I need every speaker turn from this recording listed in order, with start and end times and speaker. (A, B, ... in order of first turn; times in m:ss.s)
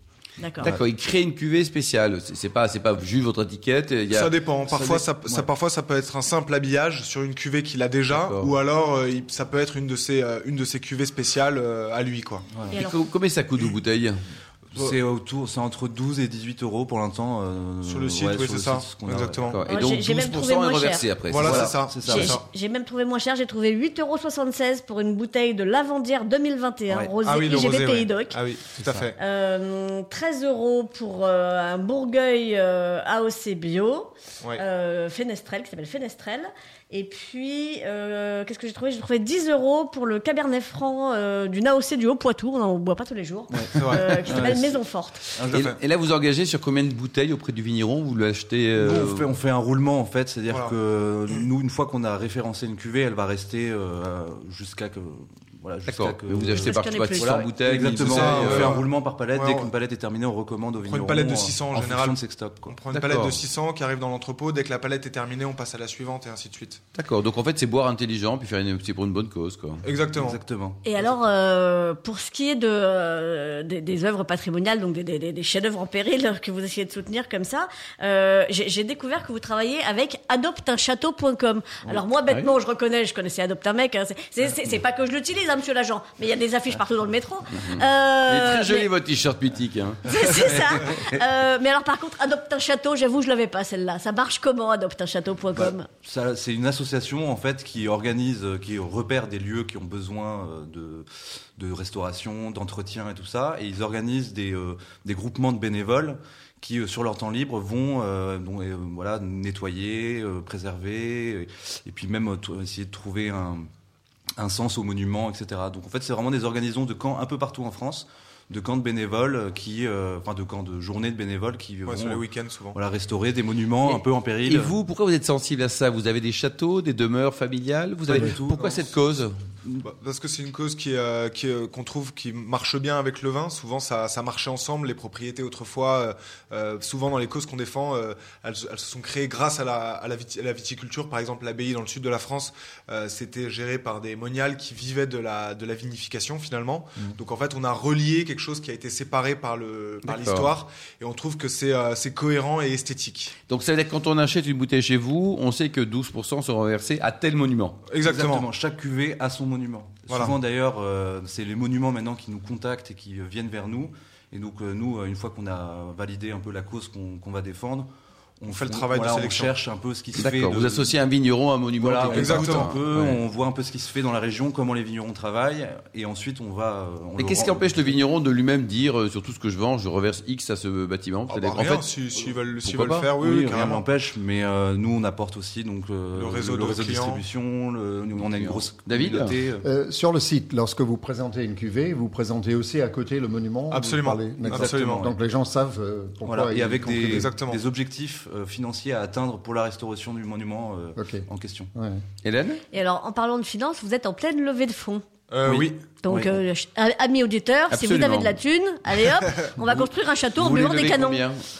0:00.4-0:00.8 A
0:00.6-0:04.3 B
0:04.1-0:12.4 C
0:04.7-0:05.5 D
0:08.1-0:08.5 B
0:12.5-0:12.8 D
0:12.7-0:13.0 A
0:12.7-0:14.2 B
0:14.7-0:19.6 D
0:17.8-0:19.6 C
0:19.5-0:21.8 B
0:19.6-0:21.1 A
0:21.2-0:22.4 C
0:21.3-0:22.4 D
0:22.0-0:28.4 A
0:26.9-0:27.1 D
0:27.2-0:29.2 C
0:28.8-0:29.1 D
0:29.2-0:45.3 A
0:43.5-0:44.8 D
0:43.7-0:44.2 C
0:45.3-0:45.7 D
0:45.5-0:45.8 C
0:45.5-0:49.2 B
0:48.8-1:02.8 D
0:50.5-0:50.8 C
0:55.9-0:58.7 B
0:56.5-0:57.4 A
0:58.0-0:59.7 C
1:00.8-1:06.8 C
1:02.9-1:03.4 B
1:06.9-1:09.8 B
1:09.8-1:10.4 C
1:10.1-1:11.2 D
1:10.8-1:28.9 A
1:27.6-1:30.3 B
1:30.1-1:35.9 A
1:35.5-1:53.7 D
1:54.4-2:04.7 D
2:01.9-2:02.8 C
2:03.9-2:09.4 B
2:08.1-2:08.9 C
2:08.1-2:08.6 D
2:09.8-2:33.3 C
2:30.1-2:30.5 B
2:33.5-2:37.8 B
2:37.9-2:38.4 C
2:38.0-2:51.0 D
2:40.1-2:40.4 C
2:48.5-2:49.6 C
2:50.1-2:53.2 B
2:51.8-2:58.0 D
2:52.0-2:52.7 C
2:57.2-3:01.9 B
3:01.3-3:03.8 C
3:02.6-3:03.1 B
3:03.2-3:09.6 D
3:06.1-3:07.2 C
3:08.2-3:09.4 B
3:09.6-3:17.3 E
3:13.7-3:15.1 C
3:14.4-3:15.2 D
3:16.2-3:21.7 D
3:16.9-3:17.6 C
3:21.0-3:22.0 E
3:22.2-3:22.6 B
3:22.7-3:25.0 A
3:25.3-3:25.8 C
3:25.4-3:26.4 D
3:26.0-3:31.2 A
3:27.7-3:28.4 B
3:30.4-3:31.4 B
3:30.4-3:30.7 D